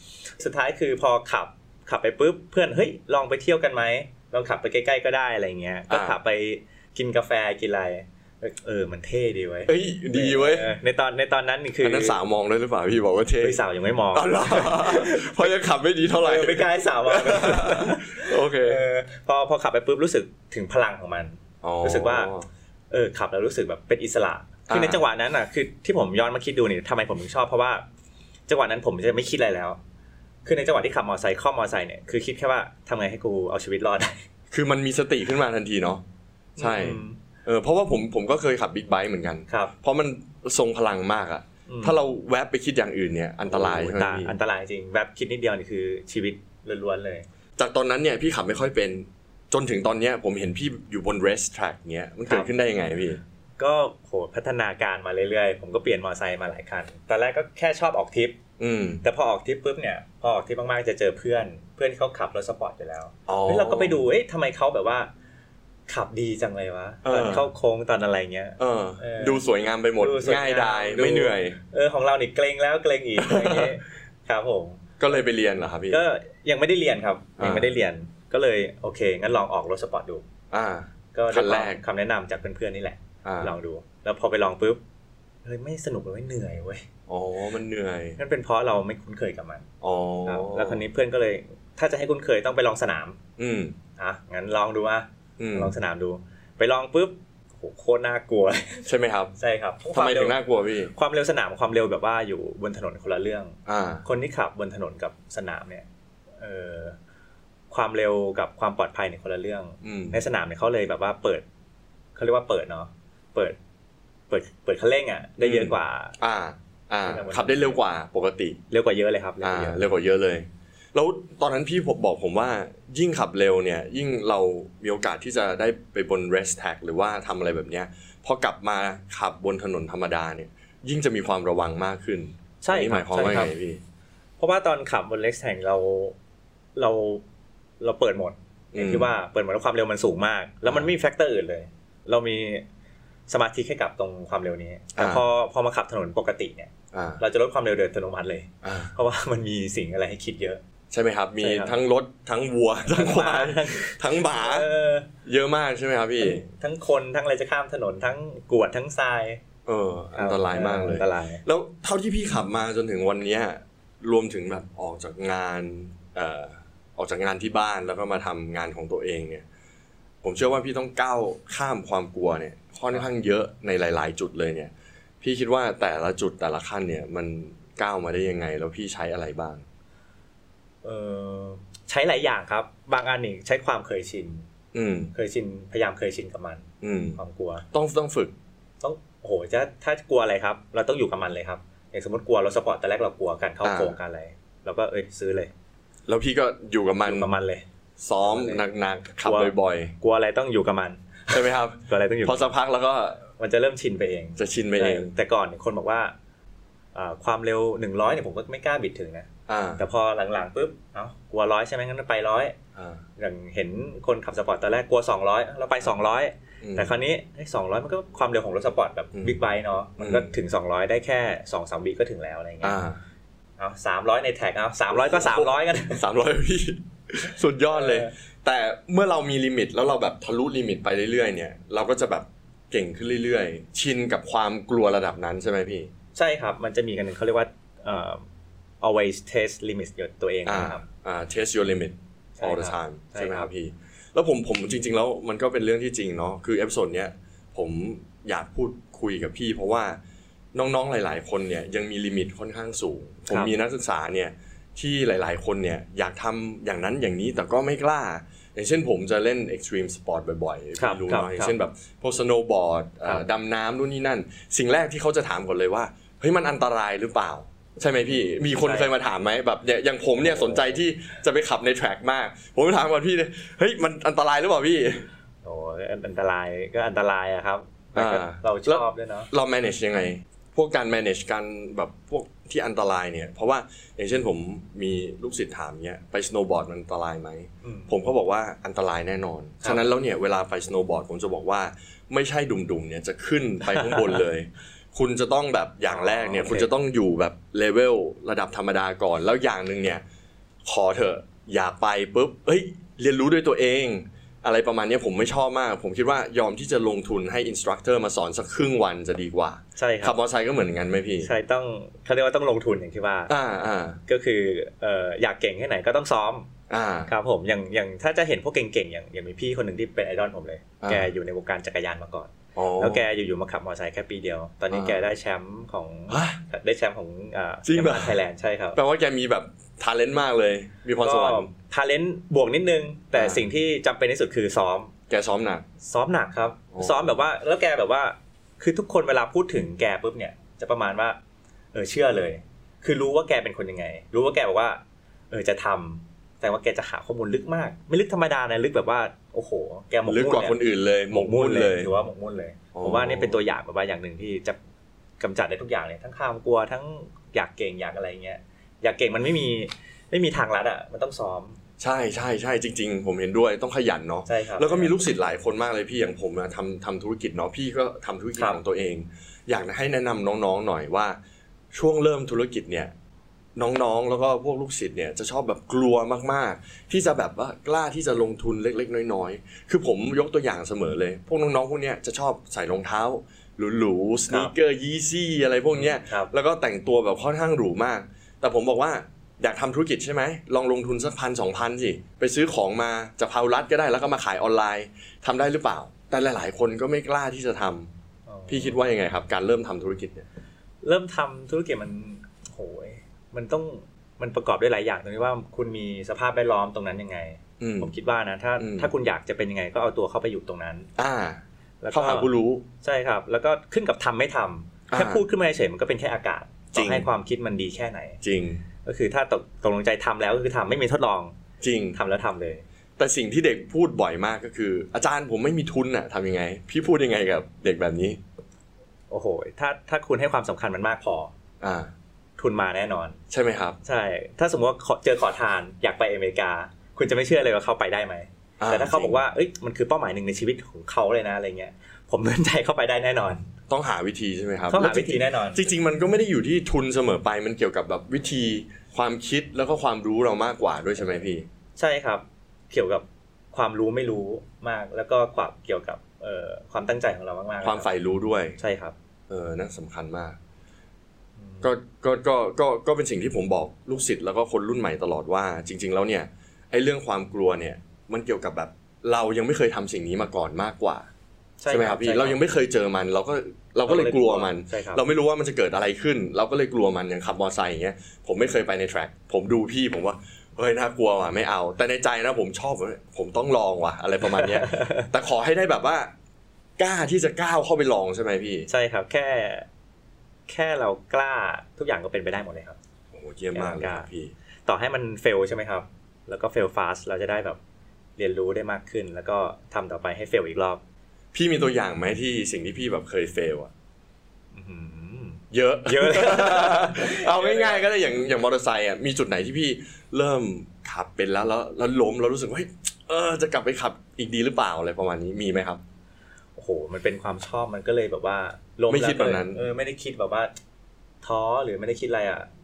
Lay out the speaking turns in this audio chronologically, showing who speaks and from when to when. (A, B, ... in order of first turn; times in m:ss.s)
0:00.4-0:12.2 A
0:05.9-0:06.2 B
0:09.7-0:10.7 B
0:11.8-0:13.6 B
0:13.4-0:15.6 A
0:14.1-0:18.8 B
0:16.2-0:22.3 A
0:21.6-0:22.4 B
0:22.9-0:27.8 A
0:24.7-0:25.0 B
0:28.5-0:29.8 A
0:30.4-0:34.2 A
0:34.5-0:36.0 B
0:36.6-0:37.2 A
0:36.6-0:44.3 B
0:39.5-0:39.7 A
0:41.7-0:42.0 A
0:43.4-0:47.2 A
0:47.6-0:53.2 B
0:53.6-0:58.4 A
0:58.6-0:59.0 B
0:59.0-1:05.1 A
1:03.3-1:04.0 B
1:05.9-1:09.4 A
1:07.0-1:07.5 B
1:08.6-1:11.6 B
1:10.0-1:14.8 A
1:13.2-1:13.7 B
1:15.0-1:16.0 B
1:15.9-1:20.2 A
1:17.4-1:17.8 B
1:20.5-1:21.8 B
1:21.1-1:24.8 A
1:23.2-1:23.5 B
1:25.4-1:26.8 A
1:27.1-1:28.2 B
1:28.2-1:29.7 A
1:29.8-1:30.8 B
1:30.2-1:33.2 A
1:33.4-1:33.8 B
1:34.0-1:38.9 A
1:35.4-1:35.7 B
1:38.9-1:39.3 B
1:39.4-1:40.4 A
1:39.9-1:40.9 B
1:40.9-1:45.9 A
1:43.6-1:44.0 B
1:46.4-1:47.0 A
1:47.7-1:51.4 A
1:49.8-1:50.2 B
1:52.2-1:53.6 A
1:54.3-1:56.2 A
1:55.4-1:58.6 B
1:57.0-1:57.8 A
1:58.7-1:59.9 A
1:59.4-2:13.8 B
2:12.6-2:13.5 A
2:14.4-2:16.2 A
2:16.8-2:17.2 A
2:17.8-2:22.6 A
2:18.7-2:19.1 B
2:23.3-2:30.6 A
2:25.0-2:25.2 B
2:26.9-2:27.2 B
2:28.6-2:28.9 B
2:30.9-2:34.7 B
2:31.4-2:31.8 A
2:32.8-2:35.1 A
2:35.2-2:36.4 B
2:36.2-2:39.4 A
2:39.6-2:49.4 B
2:40.2-2:41.4 A
2:50.2-2:54.7 B
2:55.2-2:59.6 B
3:00.8-3:04.5 A
3:04.7-3:05.1 B
3:05.1-3:06.6 A
3:06.8-3:07.2 B
3:07.2-3:07.6 A
3:07.7-3:08.3 B
3:08.8-3:15.5 A
3:13.6-3:14.0 B
3:16.1-3:17.3 B
3:17.0-3:17.6 A
3:18.0-3:19.9 B
3:18.2-3:18.6 A
3:19.2-3:22.6 A
3:21.3-3:23.2 B
3:23.4-3:26.1 A
3:24.4-3:25.1 B
3:26.9-3:32.6 A
3:29.5-3:29.8 B
3:32.8-3:33.0 B
3:33.2-3:42.8 A
3:36.6-3:36.9 B
3:40.0-3:40.3 B
3:42.6-3:43.0 B
3:43.6-3:46.0 A
3:44.9-3:55.9 B
3:47.7-3:48.1 A
3:56.2-3:58.2 A
3:58.8-4:00.8 A
4:00.4-4:10.0 B
4:02.4-4:03.5 A
4:10.5-4:35.1 B
4:20.8-4:21.5 A
4:28.1-4:28.9 A
4:30.2-4:30.8 A
4:35.4-4:39.3 A
4:37.9-5:00.0 B
4:47.6-4:48.0 A
4:49.6-4:49.9 A
4:53.7-4:54.0 A
4:55.9-4:56.7 A
5:00.6-5:11.3 B
5:09.8-5:10.2 A
5:11.2-5:13.3 A
5:13.3-5:14.0 B
5:14.1-5:16.5 A
5:16.7-5:17.1 B
5:17.1-5:28.8 A
5:20.8-5:21.1 B
5:22.6-5:23.0 B
5:24.7-5:25.0 B
5:26.1-5:26.4 B
5:27.6-5:28.2 B
5:28.8-5:31.5 B
5:31.0-5:34.9 A
5:33.1-5:33.4 B
5:35.1-5:35.6 B
5:35.8-5:41.2 A
5:36.7-5:37.2 B
5:41.7-5:50.6 A
5:50.0-5:51.9 B
5:51.1-5:54.6 A
5:52.8-5:53.4 B
5:55.2-6:01.6 A
6:01.8-6:11.2 B
6:04.2-6:05.0 A
6:11.7-6:12.9 B
6:13.6-6:37.9 B
6:25.7-6:26.3 A
6:38.3-6:38.8 A
6:38.5-6:40.3 B
6:40.8-6:50.9 A
6:47.6-6:47.9 B
6:48.6-6:48.9 B
6:51.0-6:52.6 B
6:51.8-6:58.2 A
6:54.9-6:55.2 B
6:56.7-6:57.0 B
6:58.2-6:58.6 B
6:58.8-7:01.4 A
7:01.6-7:02.0 B
7:01.9-7:02.6 A
7:03.0-7:08.2 B
7:09.1-7:11.3 A
7:11.6-7:11.9 B
7:12.4-7:13.2 A
7:13.3-7:13.8 B
7:13.8-7:23.4 A
7:18.6-7:19.2 B
7:23.7-7:31.4 B
7:24.7-7:25.7 A
7:31.8-7:37.9 A
7:37.6-7:38.6 B
7:38.6-7:38.9 A
7:39.3-7:40.4 B
7:41.4-7:41.7 A
7:41.6-7:51.1 B
7:51.6-7:52.4 A
7:51.7-8:06.1 B
7:53.9-7:55.0 A
8:04.2-8:05.1 A
8:06.8-8:08.7 B
8:08.7-8:09.7 A
8:10.5-8:12.8 A
8:13.1-8:14.3 B
8:13.5-8:14.1 A
8:14.6-8:17.6 A
8:18.2-8:20.8 A
8:21.3-8:23.7 B
8:24.5-8:27.9 A
8:25.5-8:35.8 B
8:36.6-8:40.5 A
8:38.9-8:39.6 B
8:41.2-8:42.5 A